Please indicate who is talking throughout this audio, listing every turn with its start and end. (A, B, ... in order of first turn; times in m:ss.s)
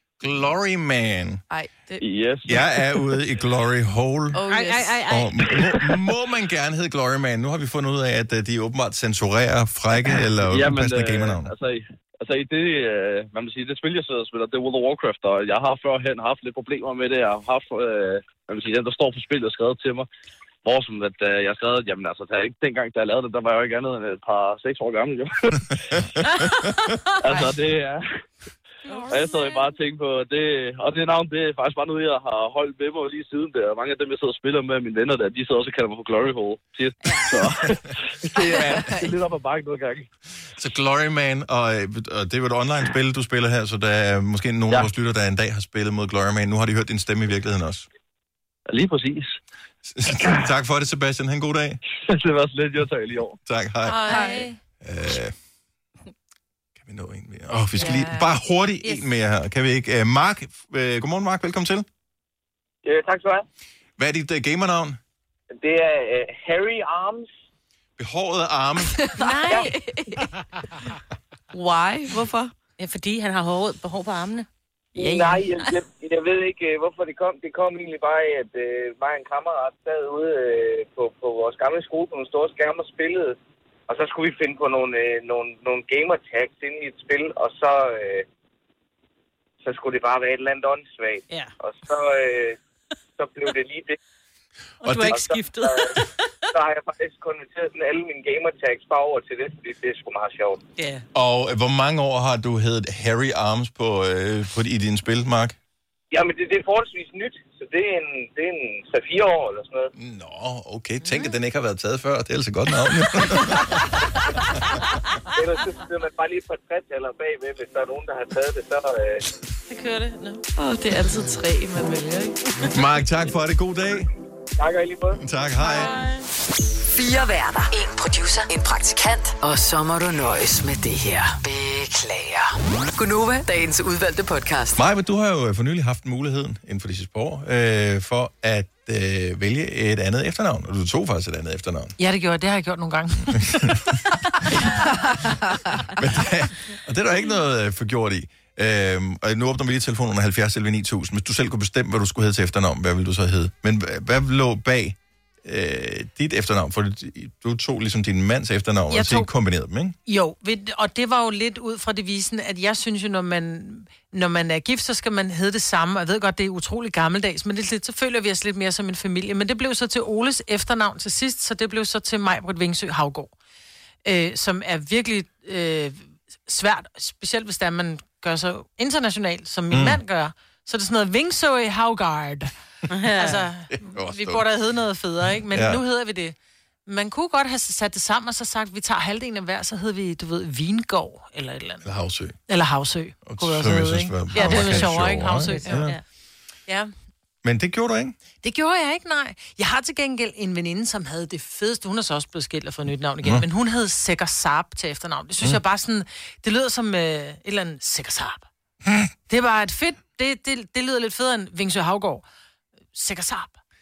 0:00.2-0:01.4 A
0:01.5-0:02.0 B
0:02.0-0:02.6 C
0:02.4-0:04.4 A
0:04.3-0:05.0 B
0:04.5-0:05.5 D
0:05.1-0:11.5 A
0:10.4-0:20.0 C
0:20.6-0:26.0 C
0:27.2-0:28.0 C
0:28.9-0:29.4 B
0:29.1-0:40.1 C
0:37.1-0:37.4 B
0:38.3-0:39.1 B
0:40.6-0:47.9 A
0:48.7-0:49.3 C
0:49.8-0:51.8 A
0:52.1-0:53.4 C
0:53.4-0:54.1 A
0:53.9-0:54.5 D
0:54.0-0:54.5 B
0:54.8-0:55.3 A
0:56.8-1:01.8 A
0:57.7-0:58.4 B
1:02.8-1:03.4 E
1:04.0-1:05.0 A
1:05.6-1:07.3 E
1:08.0-1:09.0 A
1:08.9-1:10.3 B
1:09.2-1:09.8 D
1:11.5-1:12.5 B
1:12.8-1:15.7 D
1:15.0-1:23.3 E
1:23.9-1:28.2 E
1:29.6-1:32.6 E
1:33.2-1:34.0 E
1:34.8-1:36.1 D
1:34.9-1:36.0 E
1:36.5-1:40.6 E
1:41.1-1:45.6 A
1:46.1-1:49.9 E
1:49.9-1:53.9 A
1:55.3-1:59.2 E
1:59.7-2:00.4 D
2:00.6-2:02.4 B
2:02.7-2:04.1 A
2:04.6-2:05.2 E
2:05.2-2:05.9 A
2:05.6-2:06.2 D
2:06.9-2:14.8 F
2:14.8-2:21.9 A
2:22.0-2:24.5 G
2:26.0-2:40.0 A
2:38.9-2:39.3 G
2:40.0-2:53.3 G
2:54.0-3:02.5 G
2:59.7-3:00.0 A
3:02.9-3:03.5 D
3:03.1-3:06.3 G
3:03.8-3:04.4 A
3:05.5-3:05.8 A
3:06.8-3:11.8 G
3:11.8-3:12.4 A
3:12.5-3:16.0 G
3:13.2-3:16.0 A
3:14.3-3:16.0 D
3:16.7-3:16.9 G
3:17.4-3:18.1 A
3:18.4-3:28.4 G
3:29.3-3:32.2 G
3:32.9-3:33.6 G